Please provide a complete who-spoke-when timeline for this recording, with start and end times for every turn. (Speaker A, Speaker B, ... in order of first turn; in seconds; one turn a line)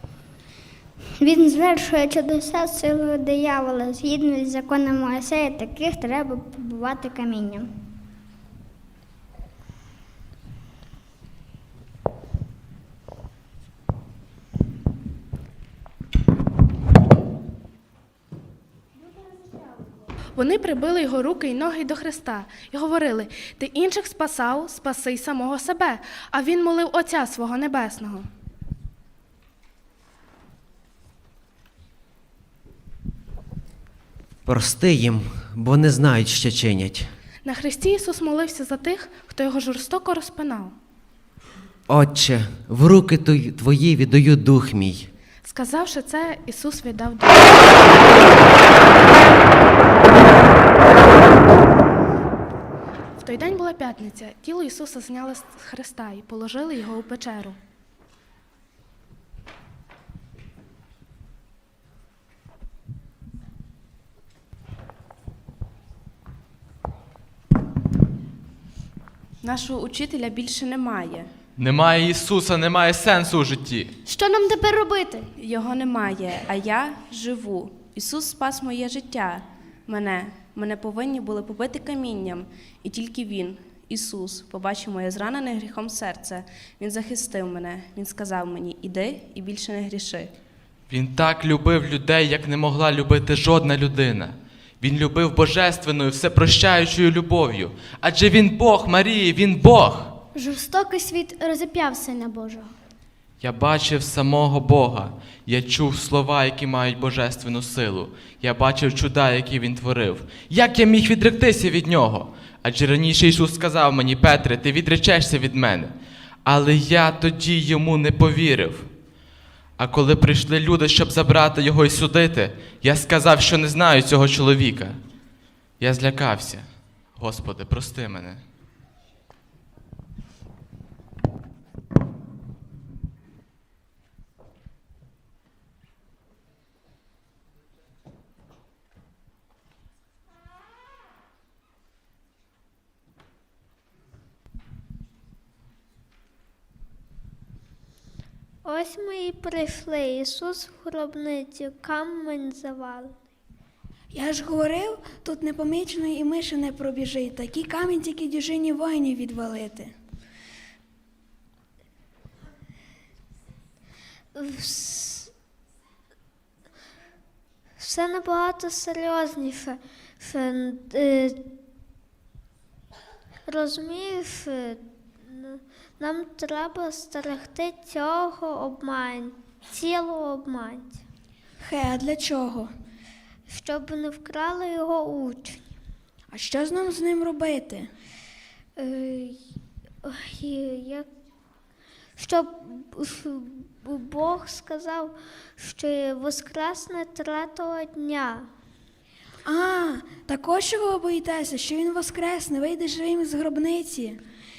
Speaker A: 1.2-7.7
Speaker B: 20.4-28.2
Speaker C: 34.5-37.1
Speaker B: 37.4-40.7
Speaker C: 41.9-45.1
Speaker B: 45.4-48.1
Speaker B: 53.2-57.5
Speaker D: 69.4-71.3
Speaker E: 71.6-73.9
Speaker F: 74.0-75.3
Speaker D: 75.4-90.3
Speaker E: 90.9-100.2
Speaker F: 100.3-102.7
Speaker E: 103.4-118.9
Speaker E: 119.8-125.0
Speaker E: 125.8-128.4
Speaker G: 148.6-153.2
Speaker H: 154.1-159.9
Speaker G: 164.3-165.3
Speaker G: 167.8-171.4
Speaker G: 173.5-181.0
Speaker H: 181.6-182.7
Speaker G: 183.5-185.6
Speaker H: 186.3-187.9
Speaker G: 188.8-189.4
Speaker G: 190.0-191.1
Speaker G: 192.2-198.5
Speaker H: 199.4-204.2